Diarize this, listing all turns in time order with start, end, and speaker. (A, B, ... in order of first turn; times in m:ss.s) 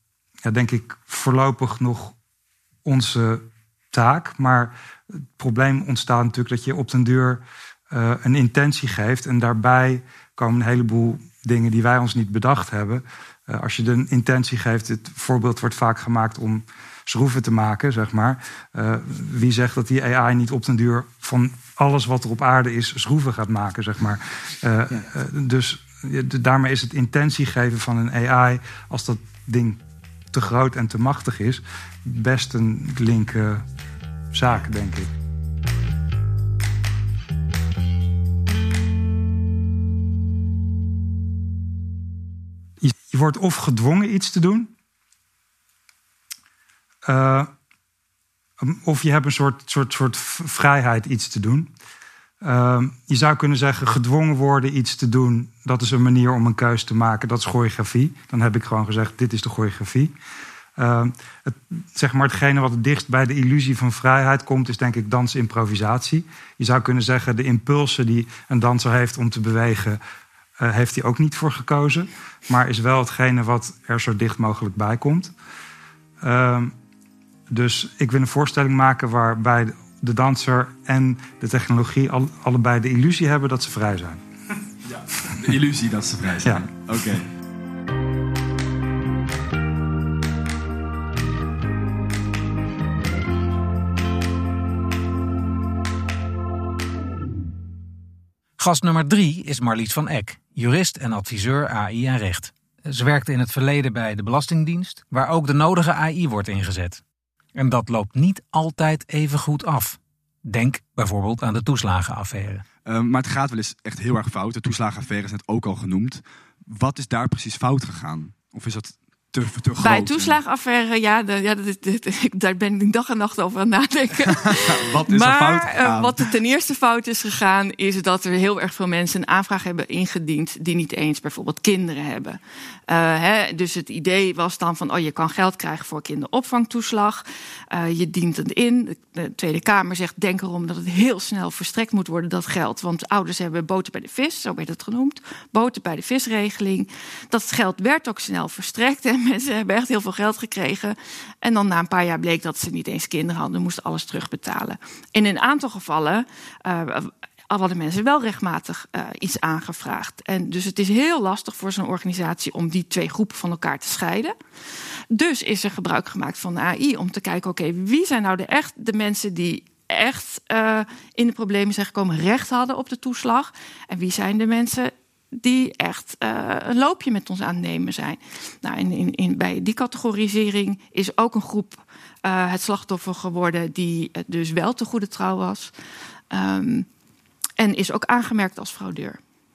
0:00.4-0:02.2 A
0:02.8-0:04.7 A
0:05.4-0:29.8 A
0:30.3-0:33.6 A
0:34.3-0:35.1 A
0:42.8-0:44.7 A
0:47.0-0:47.5 A
0:48.6-0:51.7 A
0:52.4-1:00.1 A
1:00.8-1:10.0 A
1:10.6-1:15.3 A
1:16.2-1:16.7 A
1:17.5-1:24.2 A
1:24.9-1:27.3 B
1:26.4-1:26.7 A
1:38.6-1:47.0 C
1:47.6-1:52.6 C
1:52.8-2:00.4 B
1:59.8-2:44.4 D
2:04.5-2:06.3 B
2:45.1-3:05.7 D
3:06.3-3:06.9 D
3:07.6-3:09.2 D